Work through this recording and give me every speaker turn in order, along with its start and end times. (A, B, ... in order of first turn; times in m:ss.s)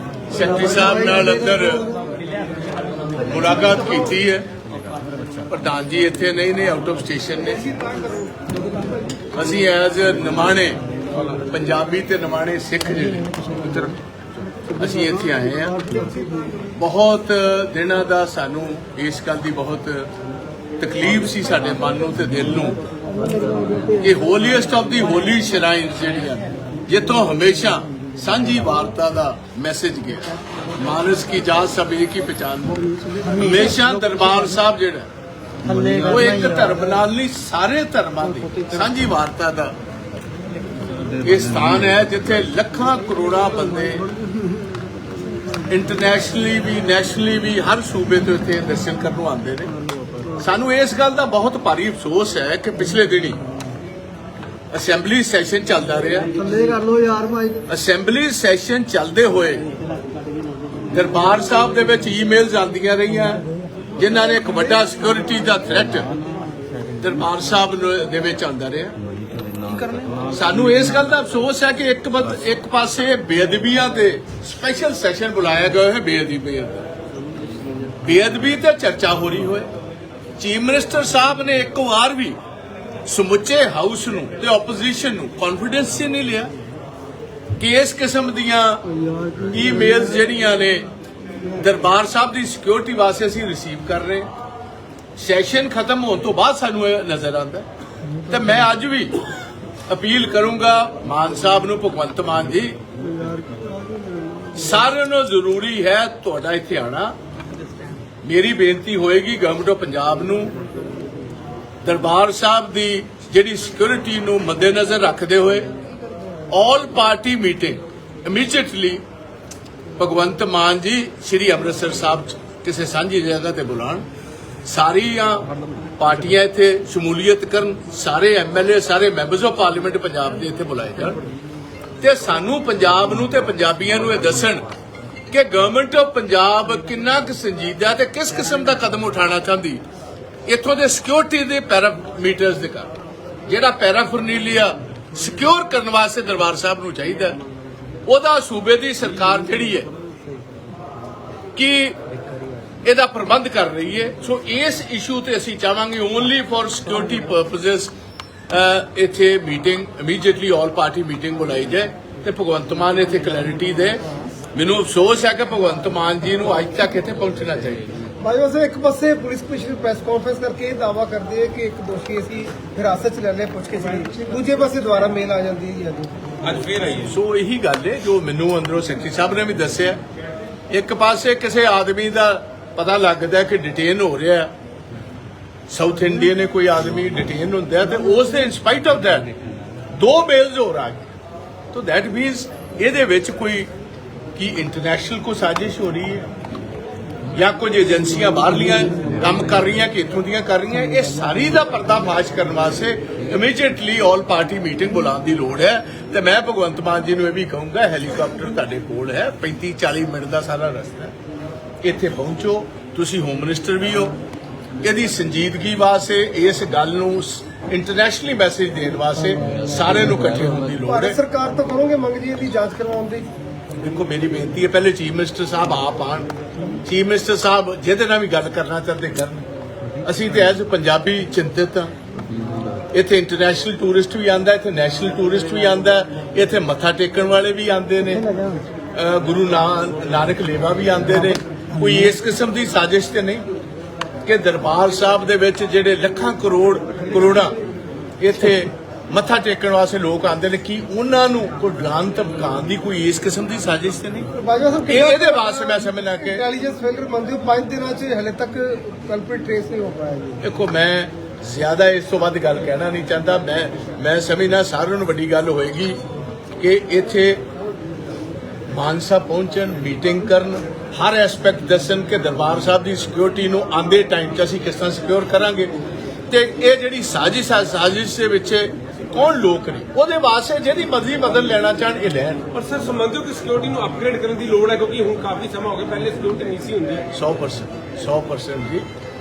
0:00.3-0:01.9 A
0:03.2-0:04.5 A
0:05.5-0:07.6 A
0:07.5-0:08.8 B
0:09.3-0:10.8 A
0:11.4-0:13.9 A
0:14.7-0:16.0 A
0:16.8-0:20.1 A
0:20.8-0:22.8 A
0:24.0-0:35.1 A
0:35.8-0:39.8 A
0:41.2-0:44.1 A
0:45.7-0:49.7 A
0:50.4-0:53.4 A
0:54.7-0:56.3 A
0:56.4-0:57.6 B
0:57.7-0:59.7 A
1:00.9-1:03.4 A
1:04.0-1:06.1 A
1:07.0-1:09.0 A
1:09.7-1:10.0 C
1:10.3-1:16.9 A
1:18.0-1:19.7 A
1:20.4-1:22.4 A
1:23.1-1:26.5 A
1:27.6-1:28.8 A
1:29.5-1:30.9 A
1:31.5-1:34.3 A
1:35.2-1:39.2 A
1:39.9-1:42.8 A
1:44.5-1:47.2 A
1:48.2-1:50.5 A
1:51.8-1:55.7 A
1:56.5-1:59.0 A
2:00.0-2:04.0 A
2:04.6-2:05.5 A
2:06.0-2:11.2 A
2:12.0-2:14.6 A
2:15.3-2:19.8 A
2:20.5-2:22.9 A
2:23.5-2:27.4 A
2:28.1-2:29.9 A
2:31.6-2:32.0 A
2:32.8-2:37.9 A
2:38.5-2:44.0 A
2:44.5-2:47.9 A
2:48.2-2:56.5 B
2:56.4-2:57.0 C
2:56.9-3:00.0 A
3:00.7-3:04.5 A
3:05.7-3:09.3 A
3:09.9-3:11.2 A
3:11.7-3:13.7 A
3:14.4-3:16.3 A
3:17.3-3:31.1 A
3:31.8-3:34.2 A
3:34.8-3:41.2 A
3:40.9-3:43.3 B
3:43.8-3:46.3 A
3:46.8-3:49.5 A
3:50.0-3:51.9 A
3:52.9-3:58.4 A
3:58.9-4:03.5 A
4:04.3-4:07.5 A
4:08.2-4:14.3 A
4:14.3-4:20.4 B
4:14.9-4:16.4 A
4:20.4-4:26.0 A
4:26.6-4:27.4 A
4:28.7-4:35.7 A
4:36.3-4:42.5 A
4:42.5-4:47.0 C
4:47.1-4:48.9 A